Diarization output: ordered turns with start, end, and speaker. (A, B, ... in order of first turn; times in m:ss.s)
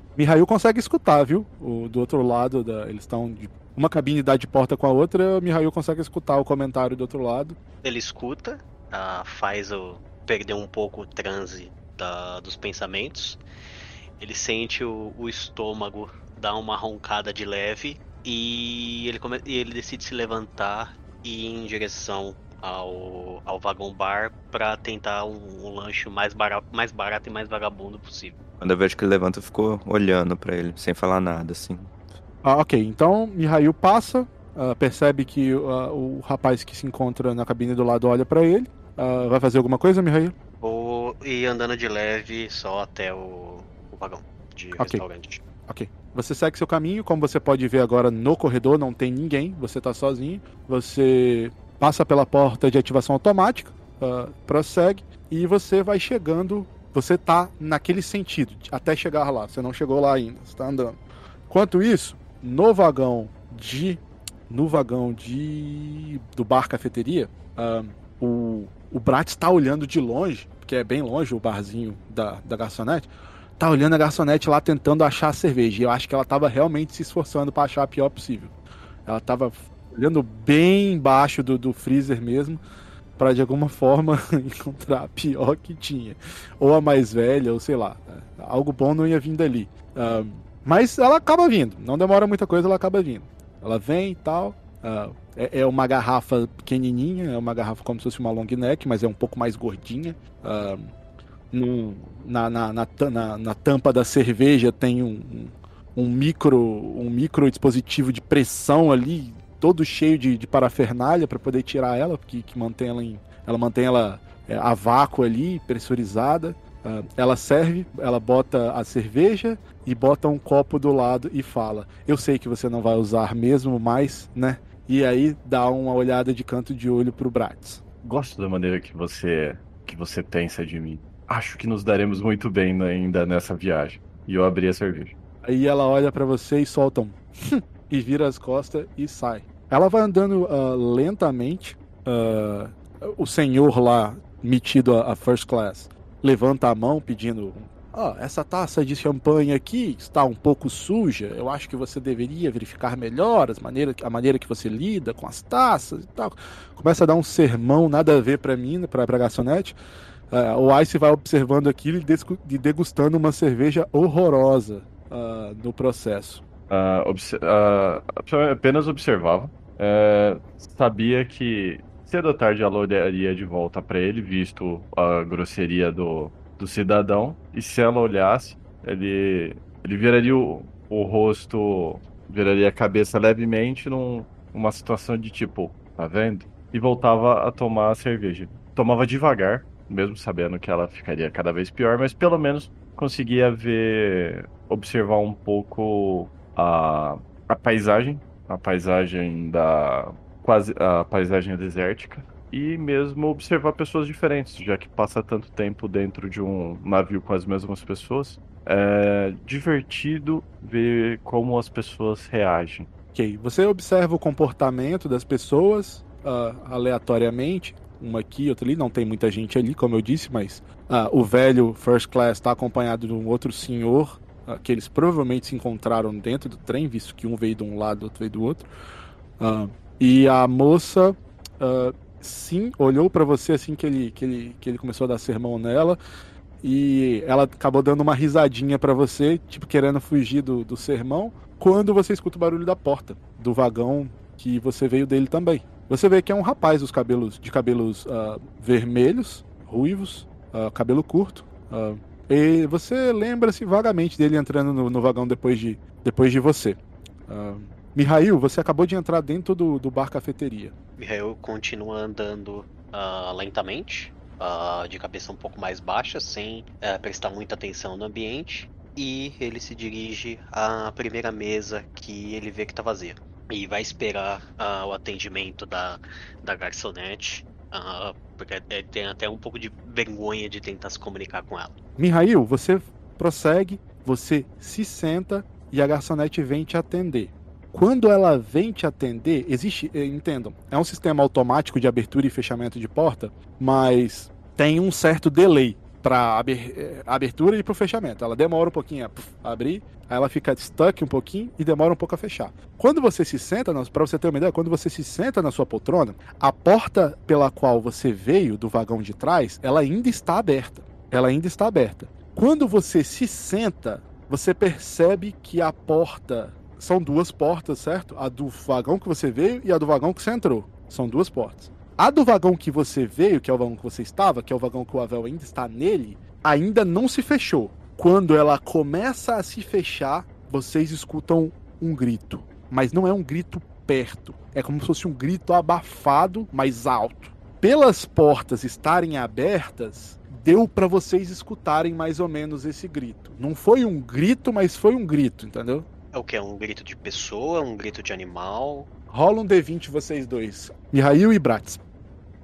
0:00.2-0:07.6 A
0:07.8-0:13.4 B
0:14.2-0:28.4 B
0:28.6-0:32.0 C
0:32.4-0:40.4 A
0:40.6-0:45.4 B
0:45.7-1:18.5 A
1:19.1-1:22.6 A
1:23.2-1:40.9 A
1:41.5-2:07.8 A
2:08.0-2:15.1 D
2:15.4-2:39.8 A
2:40.3-2:46.4 A
2:46.7-3:32.9 D
3:33.1-3:48.7 A
3:49.4-3:56.0 A
3:56.6-4:20.8 A
4:21.0-4:41.8 B
4:42.0-5:45.9 A
5:46.1-5:48.9 B
5:49.1-5:51.8 A